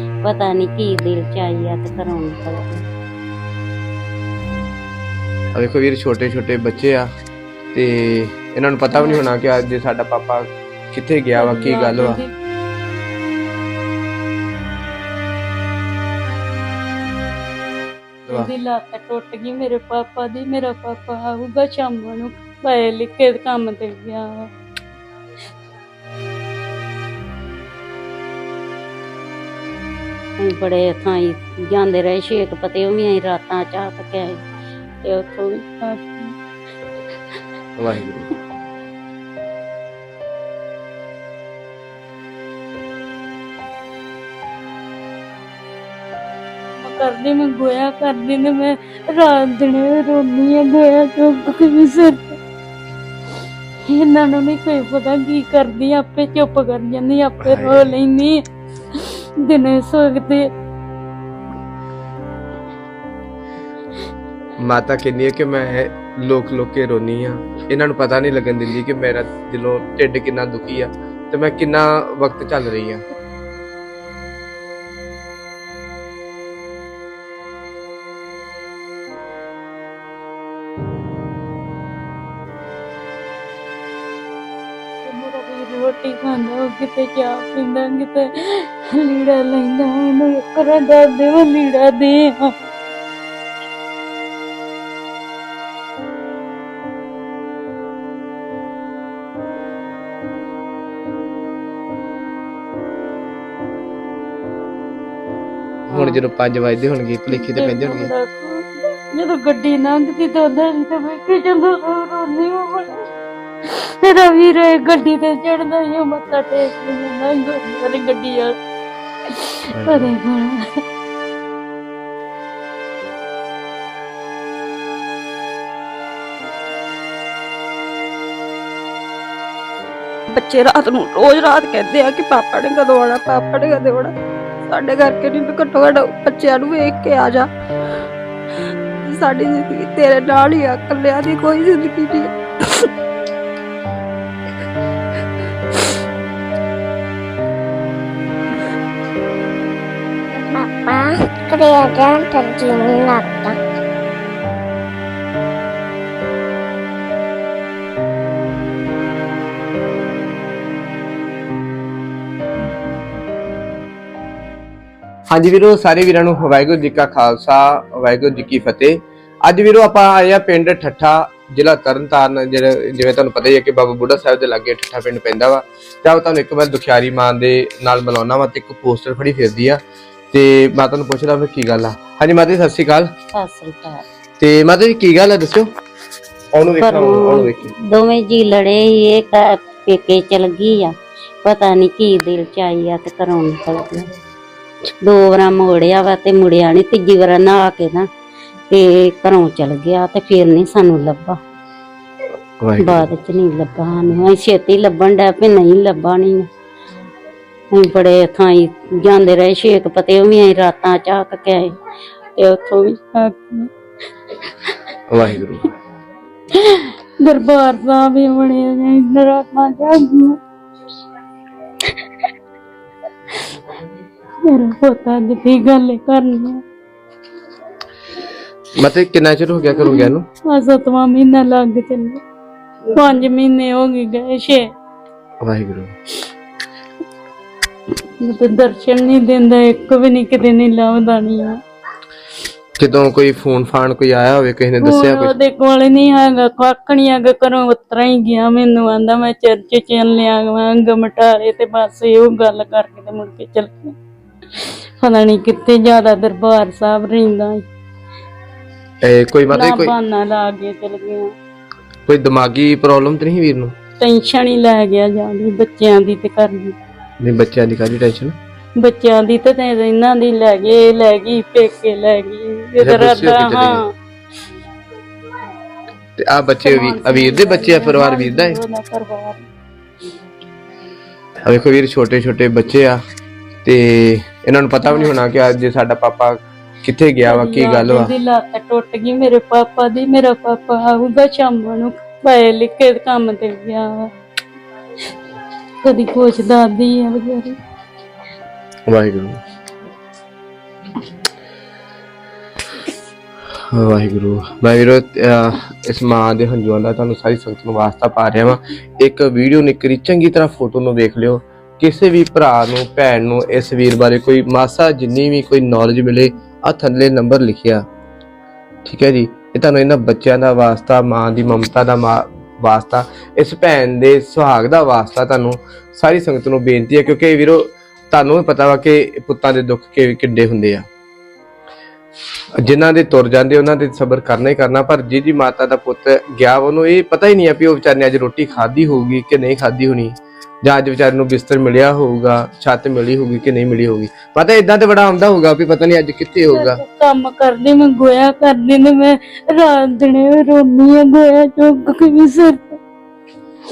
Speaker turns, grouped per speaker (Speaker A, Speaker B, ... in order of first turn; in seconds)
Speaker A: 0.2-2.8, 30.4-34.4, 35.0-35.6, 183.3-184.0, 186.8-194.1, 195.0-198.1, 198.7-201.4, 202.8-206.5, 207.7-211.7, 212.4-212.9
Speaker B: 5.5-7.1, 7.7-12.2, 37.8-38.3, 57.4-57.9, 64.6-73.0, 105.9-108.1, 119.7-120.1, 165.3-183.1, 184.4-185.7, 186.5-187.7, 202.6-203.1, 215.1-215.7, 228.7-230.3, 235.4-235.9, 242.8-245.3, 259.0-259.9, 262.1-263.8, 267.2-268.4, 272.8-273.8, 276.2-278.6, 281.4-283.0, 283.6-288.1, 298.9-299.4, 303.5-317.8, 318.8-330.9, 332.6-346.8
Speaker C: 11.3-12.3, 18.2-24.5, 35.8-36.3, 46.8-52.4, 53.9-60.5, 85.0-92.5, 107.3-113.1, 113.7-118.5, 119.3-120.8, 213.0-213.7, 216.5-220.4, 224.4-226.6, 229.9-232.2, 232.9-234.7, 238.2-241.6, 244.8-253.9, 254.5-257.6, 259.5-261.3, 264.0-266.7, 268.8-273.9, 276.6-279.4, 287.2-294.1, 295.8-297.6, 346.5-352.8
Speaker D: 130.3-134.1, 134.7-137.5, 139.0-142.9
Speaker E: 150.3-153.6